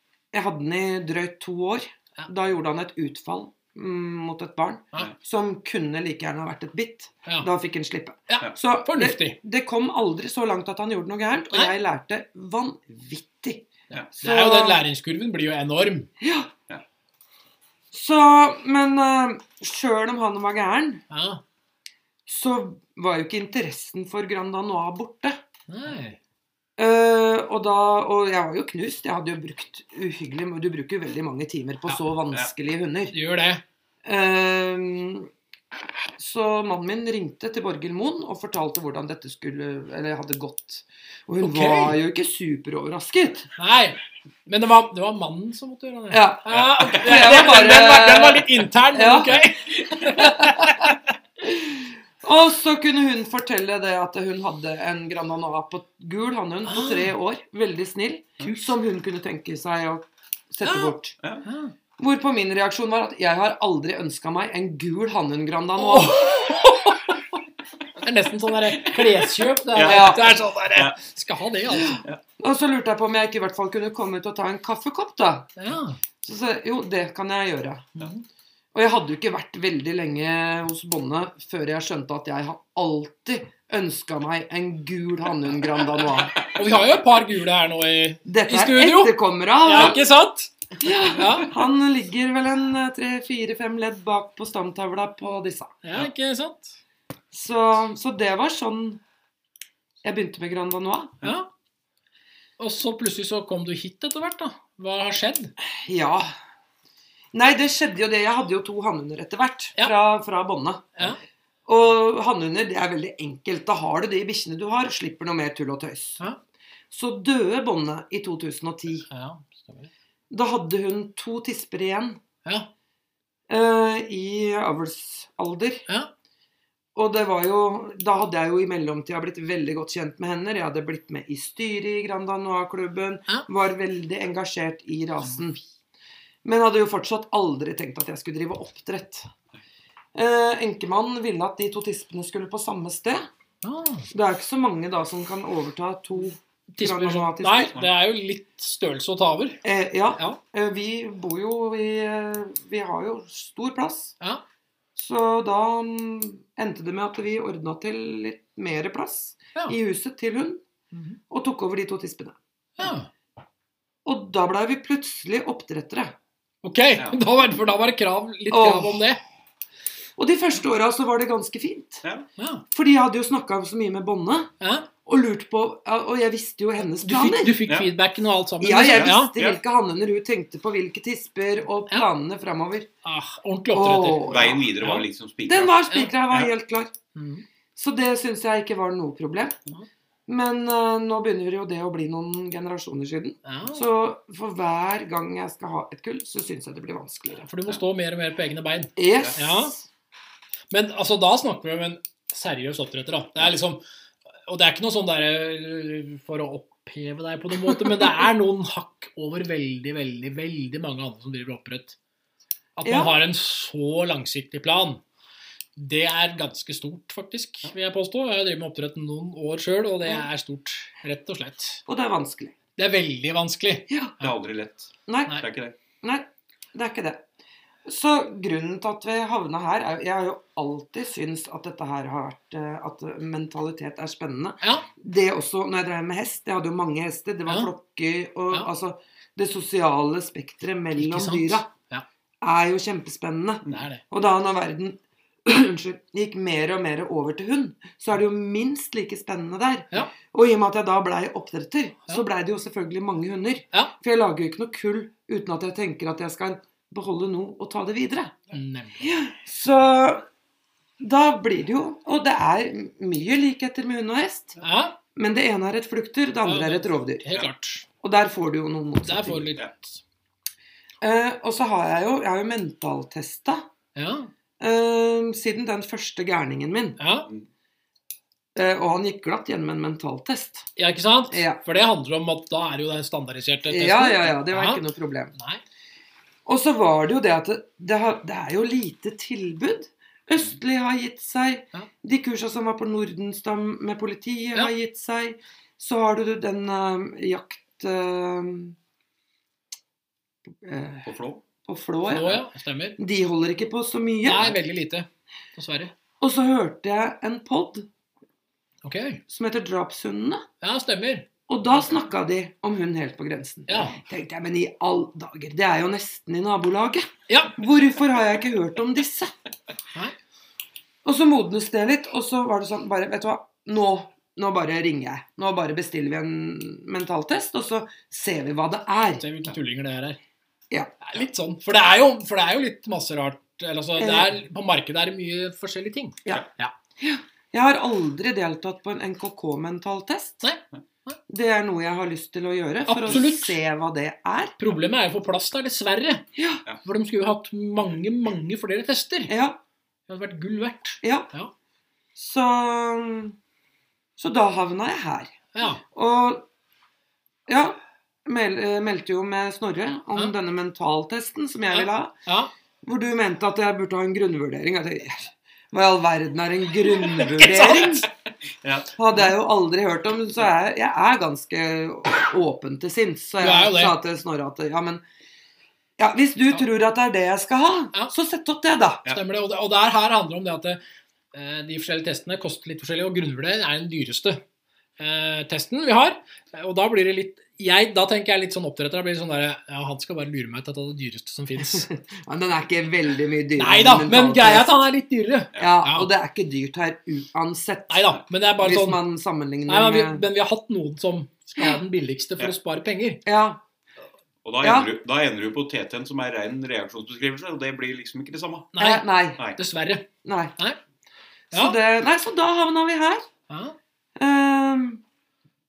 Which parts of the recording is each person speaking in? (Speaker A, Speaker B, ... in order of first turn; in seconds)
Speaker A: 0.3-14.8, 16.2-16.5, 17.9-21.0, 22.3-25.4, 26.8-33.1, 34.0-35.3, 36.2-43.5, 46.1-49.4, 51.4-61.2, 62.0-66.3, 69.8-70.4, 71.8-75.5, 76.2-77.9, 78.7-86.4, 88.2-90.0, 90.8-95.7, 97.3-99.0, 100.0-101.2, 105.7-106.3, 107.3-111.1, 111.7-116.2, 116.9-119.1, 120.3-122.2, 123.5-125.8, 127.0-135.6, 136.4-139.3, 140.1-143.3, 144.1-147.8, 149.6-154.2, 155.0-160.6, 161.3-162.4, 164.1-166.2, 168.5-169.0, 170.2-172.1, 172.7-174.5, 175.0-177.6, 178.6-182.9, 183.7-184.7, 185.5-186.9, 187.8-189.6, 190.3-197.5, 199.0-199.8, 207.7-208.1, 212.8-213.2, 221.9-222.5, 225.1-227.3, 227.9-241.7, 242.4-258.4, 259.0-260.3, 261.0-264.6, 265.1-267.3, 268.0-269.5, 271.0-273.7, 274.6-277.0, 278.6-280.7, 281.3-281.6, 283.7-285.4, 286.5-298.8, 300.5-302.4, 303.0-304.6, 306.2-307.9, 309.3-310.5, 311.5-319.3, 321.0-329.3, 334.0-334.3, 337.0-340.5, 341.3-344.6, 346.4-346.6, 349.3-349.6, 351.0-351.3, 352.2-353.4, 354.2-356.5, 357.5-362.1, 362.8-368.1, 369.0-375.0, 376.0-379.1, 391.6-394.7, 395.6-400.2, 403.2-403.6, 404.6-404.9, 408.8-409.4, 410.2-410.6, 411.5-413.2, 414.2-415.0
Speaker B: 8.3-9.4, 14.2-16.1, 21.1-21.4, 25.7-26.2, 33.1-33.6, 41.4-42.0, 43.6-51.0, 56.7-57.1, 60.6-60.9, 61.4-61.7, 65.8-67.2, 68.0-72.0, 75.6-76.0, 86.5-90.5, 91.1-91.5, 95.8-96.8, 101.2-101.5, 102.6-105.5, 119.1-119.9, 143.6-144.1, 146.8-149.6, 160.9-161.2, 162.8-163.1, 166.6-169.2, 172.4-172.6, 174.6-174.9, 176.8-179.3, 183.0-185.0, 187.2-187.4, 193.4-193.8, 197.4-199.8, 200.7-203.8, 204.5-212.0, 212.8-215.0, 215.8-221.8, 222.8-224.3, 237.5-237.7, 241.0-242.1, 243.7-244.0, 258.5-259.2, 264.6-265.0, 266.4-267.9, 269.0-270.0, 274.0-274.3, 277.0-277.3, 280.8-284.8, 285.4-285.6, 302.1-303.0, 304.2-305.9, 308.9-309.2, 310.6-311.9, 313.7-314.0, 317.3-317.6, 329.2-330.2, 331.0-336.7, 340.4-341.2, 342.9-343.6, 344.6-346.2, 346.8-349.3, 350.1-351.5, 355.6-355.8, 361.7-362.5, 367.4-368.0, 373.4-374.0, 379.1-380.8, 381.3-384.4, 385.0-391.9, 393.6-396.1, 397.9-399.0, 399.7-403.2, 408.8-410.8, 411.5-411.8, 413.5-413.8
Speaker C: 46.5-47.0, 69.7-70.2, 178.9-179.6, 184.3-185.7, 224.2-225.8, 301.1-301.4, 368.6-368.9, 404.4-408.7